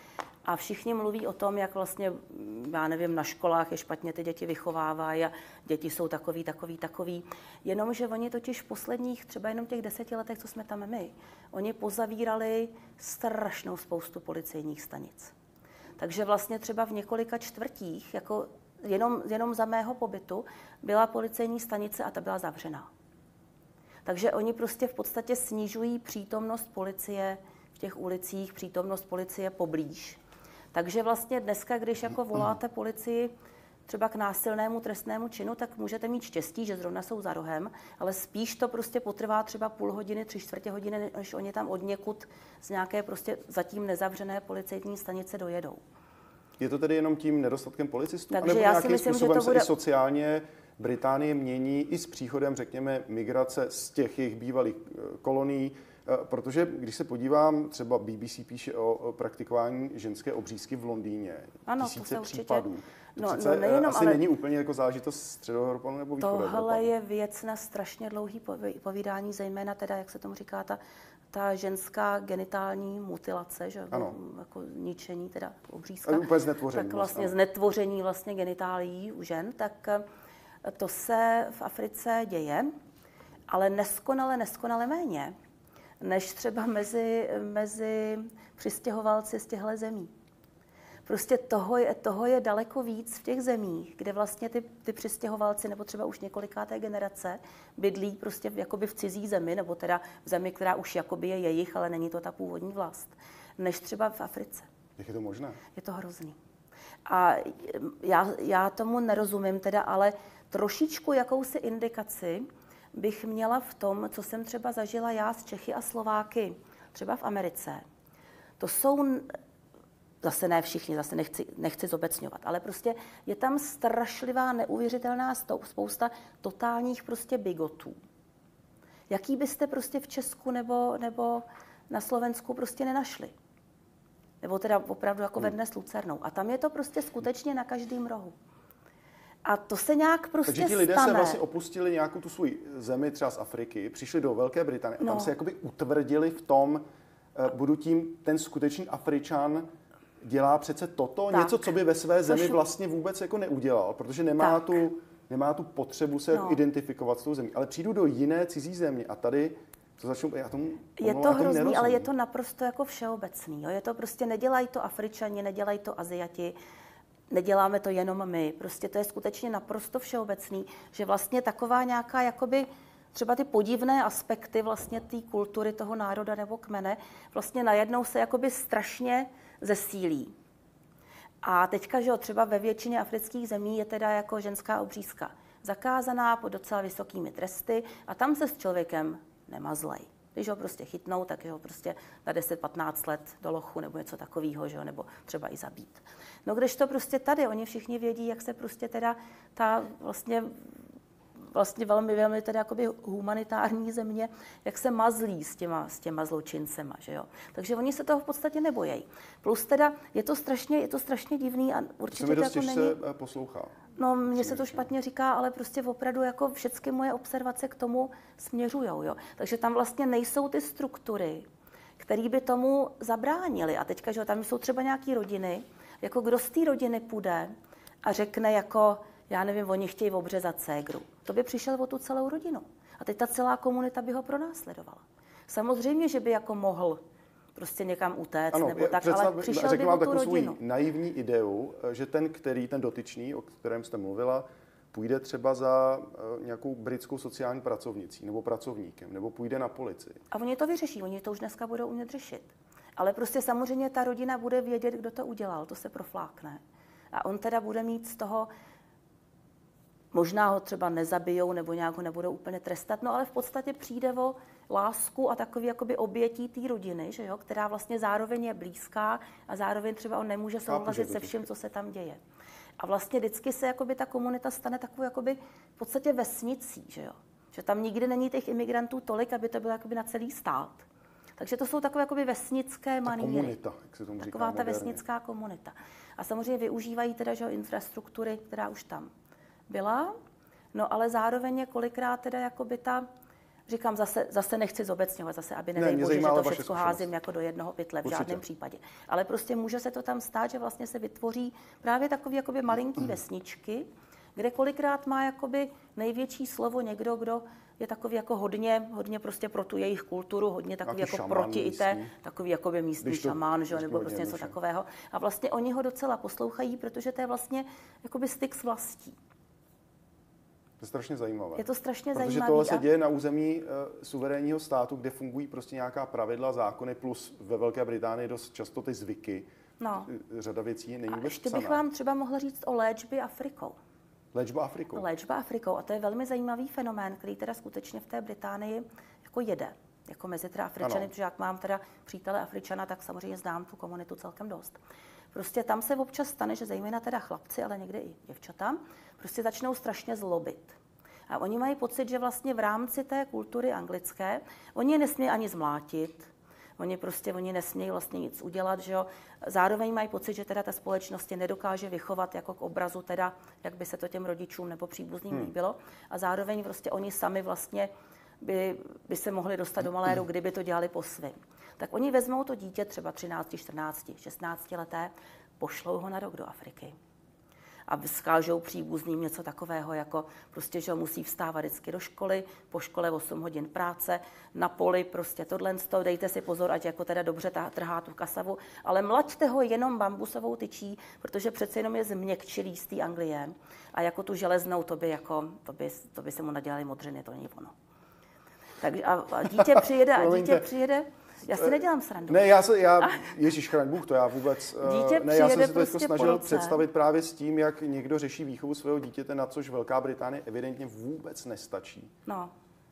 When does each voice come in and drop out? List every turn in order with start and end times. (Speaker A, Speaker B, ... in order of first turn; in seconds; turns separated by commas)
Speaker A: 0.5-15.3, Speaker A: 16.0-22.9, Speaker A: 24.1-30.2, Speaker A: 30.7-33.3, Speaker A: 33.9-45.8, Speaker B: 46.6-66.9, Speaker A: 48.3-49.7, Speaker A: 61.7-64.2, Speaker A: 66.2-70.8, Speaker A: 71.3-80.0, Speaker B: 76.0-77.3, Speaker A: 80.6-82.7, Speaker A: 83.5-85.3, Speaker A: 86.0-90.1, Speaker A: 91.1-104.7, Speaker B: 105.0-105.6, Speaker A: 105.7-106.4, Speaker A: 107.1-117.8, Speaker A: 118.6-119.3, Speaker A: 120.2-128.0, Speaker A: 129.1-133.3, Speaker A: 134.4-138.4, Speaker A: 139.4-141.4, Speaker B: 140.5-146.8, Speaker A: 145.0-145.3, Speaker B: 147.3-149.7, Speaker B: 150.2-162.1, Speaker A: 151.3-151.6, Speaker A: 152.3-152.6, Speaker A: 154.4-154.8, Speaker A: 156.3-156.6, Speaker A: 161.0-166.6, Speaker A: 167.3-180.3, Speaker A: 181.4-200.6, Speaker A: 201.4-213.0, Speaker B: 212.1-214.9, Speaker A: 214.0-221.5, Speaker A: 222.0-227.5, Speaker A: 228.0-237.0, Speaker A: 237.6-240.6, Speaker B: 238.5-250.2, Speaker A: 250.3-256.6, Speaker A: 257.1-258.5, Speaker A: 260.1-272.2, Speaker B: 270.7-271.5, Speaker A: 272.8-280.9, Speaker A: 281.4-283.6, Speaker B: 283.1-285.0, Speaker A: 284.2-289.1, Speaker A: 289.7-290.1, Speaker A: 290.7-293.1, Speaker A: 293.7-319.2, Speaker B: 295.8-297.1, Speaker B: 298.0-298.4, Speaker B: 310.9-312.1, Speaker B: 313.0-314.6, Speaker B: 320.8-329.5, Speaker A: 321.6-322.9, Speaker A: 329.8-330.1, Speaker B: 330.1-331.8, Speaker A: 331.1-333.8, Speaker B: 334.3-335.1, Speaker A: 334.9-344.8, Speaker B: 340.8-341.1, Speaker A: 345.3-350.8, Speaker A: 351.3-376.9, Speaker A: 377.9-397.7, Speaker A: 398.8-403.3, Speaker B: 399.7-400.7, Speaker B: 401.5-412.1, Speaker A: 404.8-406.8, Speaker A: 412.3-412.5